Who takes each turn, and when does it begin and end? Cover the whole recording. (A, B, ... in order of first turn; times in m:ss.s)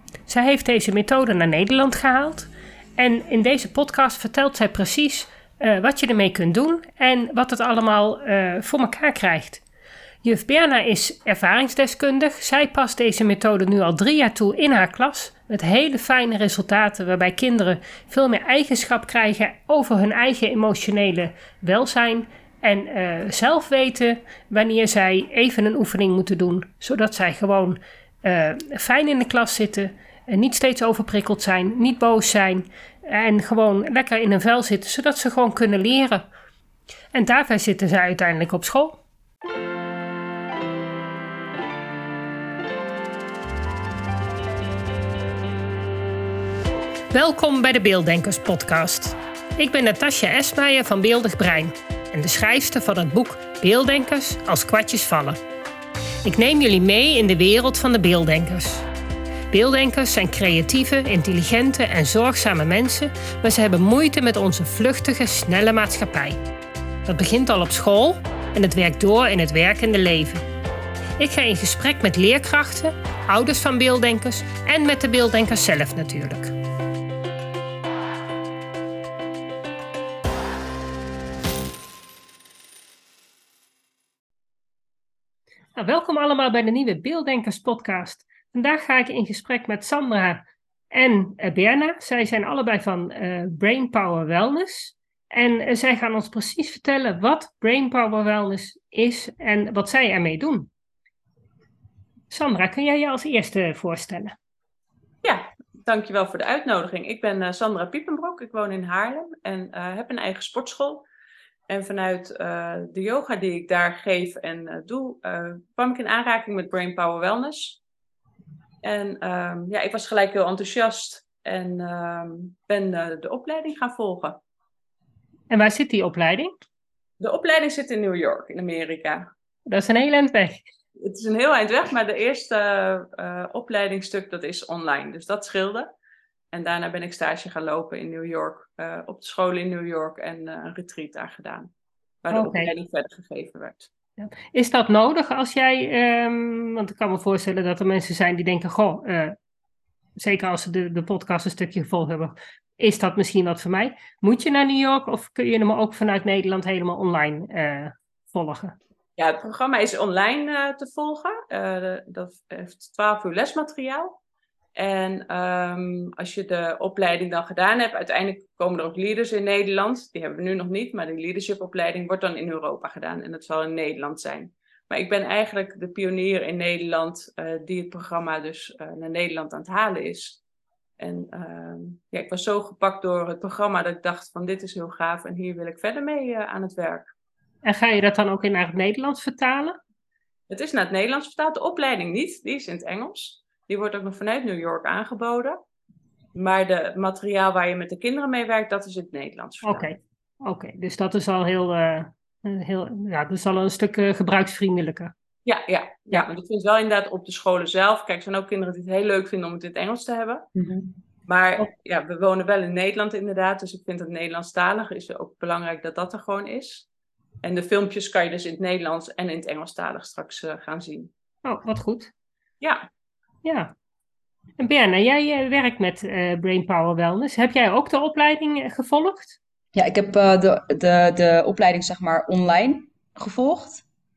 0:00.3-0:09.6 A
0:10.2-0:36.3 A
0:37.1-0:39.0 A
0:47.1-0:55.4 A
0:56.2-0:58.9 A
0:59.5-1:06.4 A
1:07.1-1:10.4 A
1:11.2-1:16.6 A
1:25.8-1:40.7 A
1:42.3-1:44.3 A
1:45.2-1:51.0 B
1:51.7-1:57.8 B
1:58.8-2:04.4 B
2:05.5-2:06.5 A
2:07.2-2:09.3 B
2:09.7-2:10.6 A
2:11.0-2:15.9 B
2:16.5-2:21.7 B
2:22.2-2:23.9 B
2:22.3-2:22.7 A
2:24.2-2:29.4 A
2:30.2-2:38.8 A
2:39.2-2:44.2 B
2:44.8-3:00.4 B
3:01.0-3:07.1 B
3:07.6-3:09.8 A
3:10.5-3:15.6 B
3:16.4-3:19.9 B
3:19.6-3:25.1 A
3:25.4-3:30.5 B
3:30.6-3:30.9 C
3:31.3-3:36.9 B
3:37.4-3:41.1 B
3:41.4-3:42.1 A
3:43.4-3:43.7 A
3:44.6-3:49.4 A
3:49.8-3:53.8 C